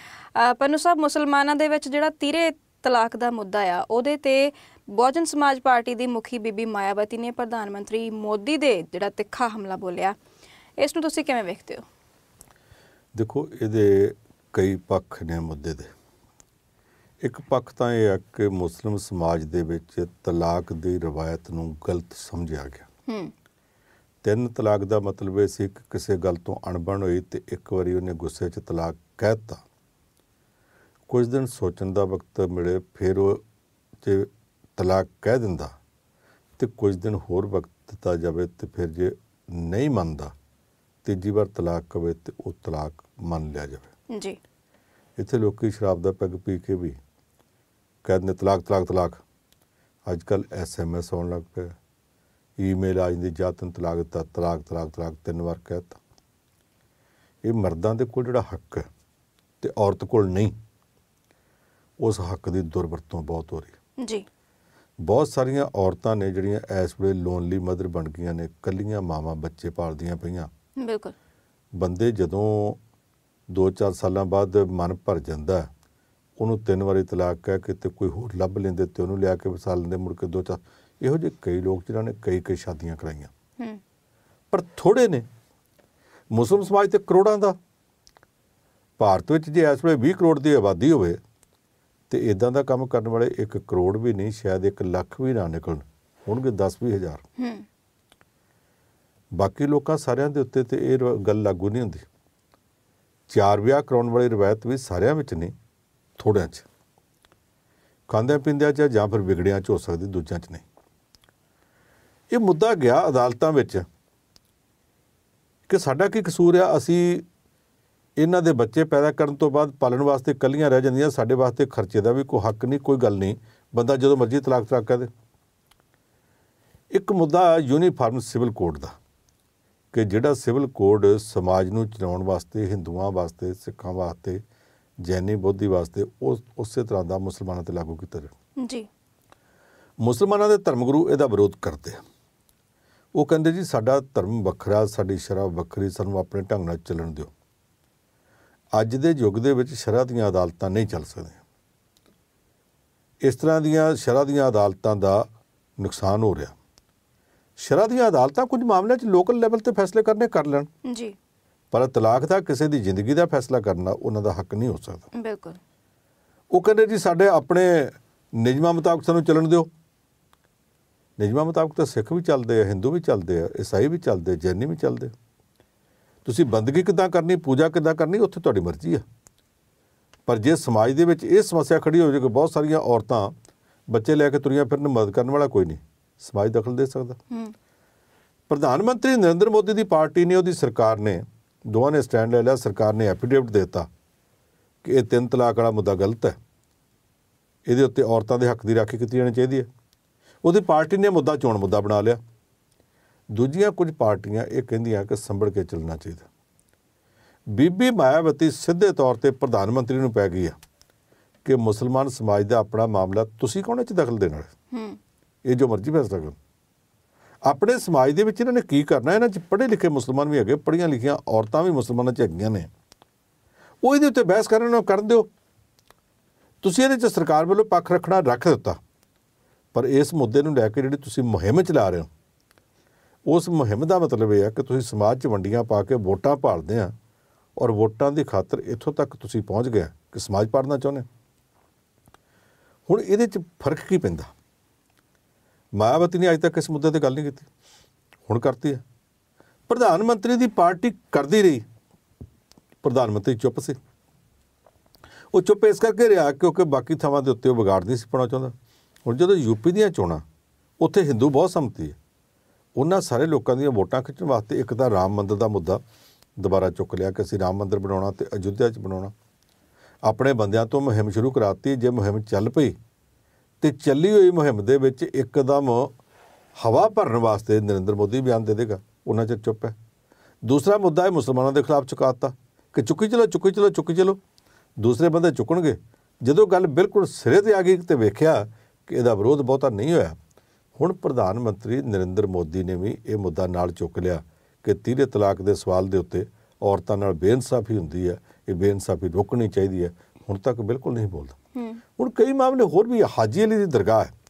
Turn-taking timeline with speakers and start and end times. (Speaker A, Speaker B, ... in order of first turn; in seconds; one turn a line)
Speaker A: 0.3-10.2
Speaker A: 10.8-11.8
Speaker B: 13.1-15.9
Speaker B: 17.2-22.9
Speaker A: 23.1-23.3
Speaker B: 24.2-29.6
Speaker B: 31.1-33.4
Speaker B: 34.0-35.7
Speaker B: 36.6-40.3
Speaker B: 41.0-43.9
Speaker A: 44.1-44.4
Speaker B: 45.2-47.0
Speaker B: 48.0-49.2
Speaker B: 50.0-51.8
Speaker B: 52.6-56.0
Speaker B: 57.4-58.9
Speaker B: 59.6-60.5
Speaker B: 62.0-63.7
Speaker A: 64.0-64.2
Speaker B: 65.0-70.5
Speaker A: 70.8-71.1
Speaker B: 71.7-72.8
Speaker B: 73.5-75.7
Speaker B: 76.4-83.3
Speaker B: 84.5-85.3
Speaker B: 86.3-87.6
Speaker B: 89.0-91.2
Speaker B: 92.1-97.2
Speaker A: 97.4-97.7
Speaker B: 99.3-102.0
Speaker B: 103.3-105.5
Speaker B: 106.2-106.7
Speaker B: 108.1-110.6
Speaker B: 112.3-113.9
Speaker B: 115.7-117.2
Speaker B: 118.2-125.1
Speaker B: 126.9-129.0
Speaker B: 129.9-134.4
Speaker B: 135.0-138.3
Speaker A: 138.6-138.9
Speaker B: 140.0-142.0
Speaker B: 143.1-147.3
Speaker B: 148.7-151.4
Speaker B: 153.2-156.6
Speaker B: 157.6-160.7
Speaker A: 160.8-161.2
Speaker B: 161.7-165.1
Speaker A: 165.1-165.6
Speaker B: 166.5-169.7
Speaker B: 171.2-175.1
Speaker B: 176.2-179.1
Speaker B: 180.3-183.3
Speaker B: 183.9-187.2
Speaker B: 188.5-193.9
Speaker B: 194.8-196.4
Speaker B: 197.7-199.7
Speaker B: 200.4-202.2
Speaker B: 203.3-206.2
Speaker B: 207.5-210.6
Speaker B: 211.4-214.5
Speaker A: 214.7-215.0
Speaker B: 215.4-216.4
Speaker B: 217.4-222.7
Speaker B: 223.8-225.3
Speaker B: 226.6-228.8
Speaker B: 229.7-232.1
Speaker B: 233.3-236.9
Speaker B: 237.6-241.1
Speaker B: 242.9-244.3
Speaker B: 245.8-247.5
Speaker B: 248.3-248.8
Speaker B: 249.7-251.7
Speaker B: 252.8-253.8
Speaker B: 255.3-258.5
Speaker B: 259.0-260.2
Speaker B: 260.8-262.0
Speaker B: 262.8-265.8
Speaker B: 266.4-269.1
Speaker B: 270.0-272.8
Speaker B: 273.6-275.9
Speaker B: 276.6-279.8
Speaker B: 280.4-284.2
Speaker B: 284.8-290.2
Speaker B: 290.8-301.4
Speaker A: 301.5-301.8
Speaker B: 302.0-304.1